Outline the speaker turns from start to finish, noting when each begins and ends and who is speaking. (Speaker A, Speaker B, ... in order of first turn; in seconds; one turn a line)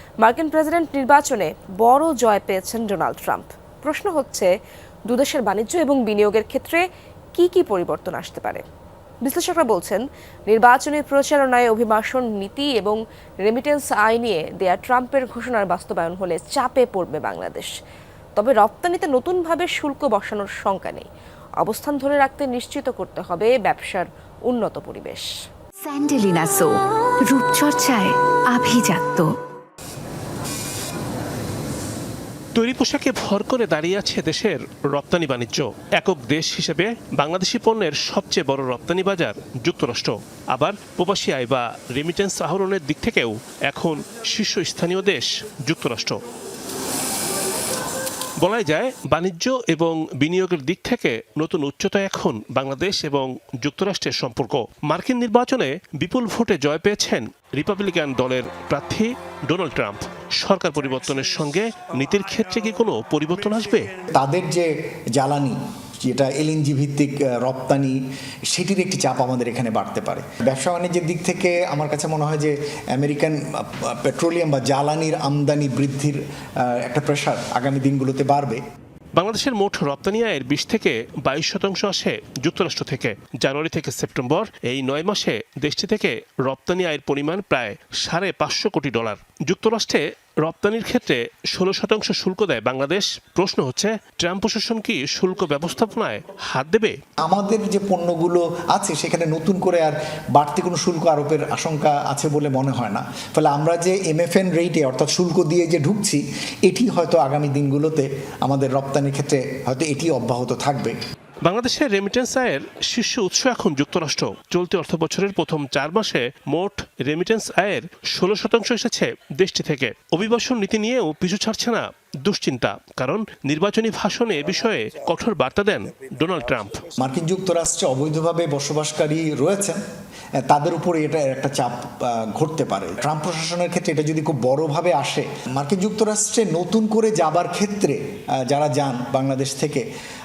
Speaker A: 0.2-4.5
Speaker A: 5.1-6.8
Speaker A: 7.3-8.6
Speaker A: 9.2-17.7
Speaker A: 18.4-21.1
Speaker A: 21.6-25.3
Speaker B: 25.8-29.3
Speaker C: 32.5-46.2
Speaker C: 48.4-63.9
Speaker D: 64.1-68.0
Speaker D: 68.5-78.6
Speaker C: 79.2-97.0
Speaker D: 97.2-111.0
Speaker C: 111.4-126.8
Speaker D: 127.0-129.8
Speaker D: 130.4-139.8